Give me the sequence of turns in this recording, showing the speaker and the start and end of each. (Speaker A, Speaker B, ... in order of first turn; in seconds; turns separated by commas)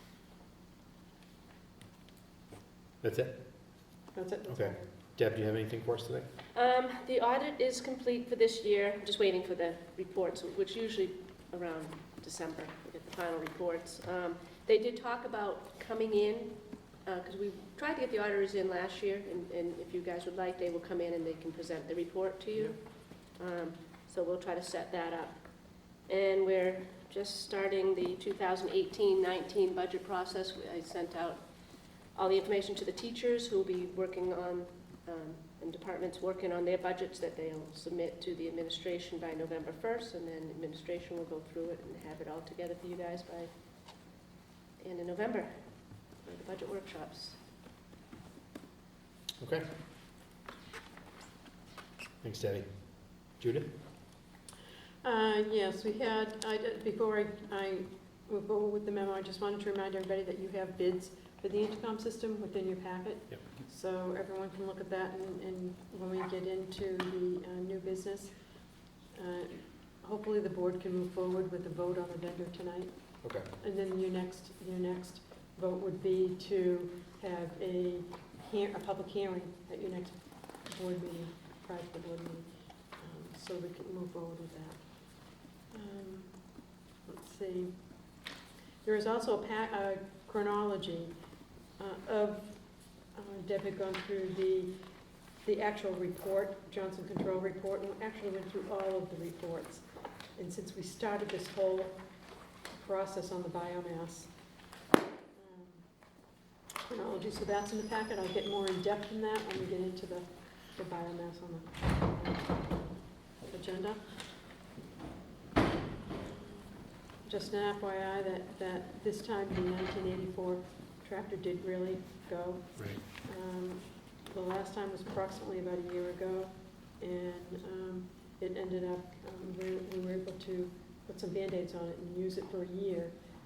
Speaker A: 3.0-3.9, Speaker B: 4.1-4.9, Speaker A: 4.5-6.2, Speaker C: 6.5-25.4, Speaker C: 26.0-31.5, Speaker C: 32.1-43.5, Speaker C: 44.8-47.4, Speaker A: 49.4-49.7, Speaker A: 52.2-53.7, Speaker B: 55.0-68.3, Speaker B: 69.1-72.9, Speaker A: 73.2-73.5, Speaker B: 73.6-87.8, Speaker B: 88.8-91.1, Speaker B: 91.8-94.8, Speaker B: 95.4-99.8, Speaker B: 100.4-102.0, Speaker B: 102.7-104.3, Speaker B: 105.3-105.9, Speaker B: 106.8-114.0, Speaker B: 117.2-133.1, Speaker A: 122.8-123.0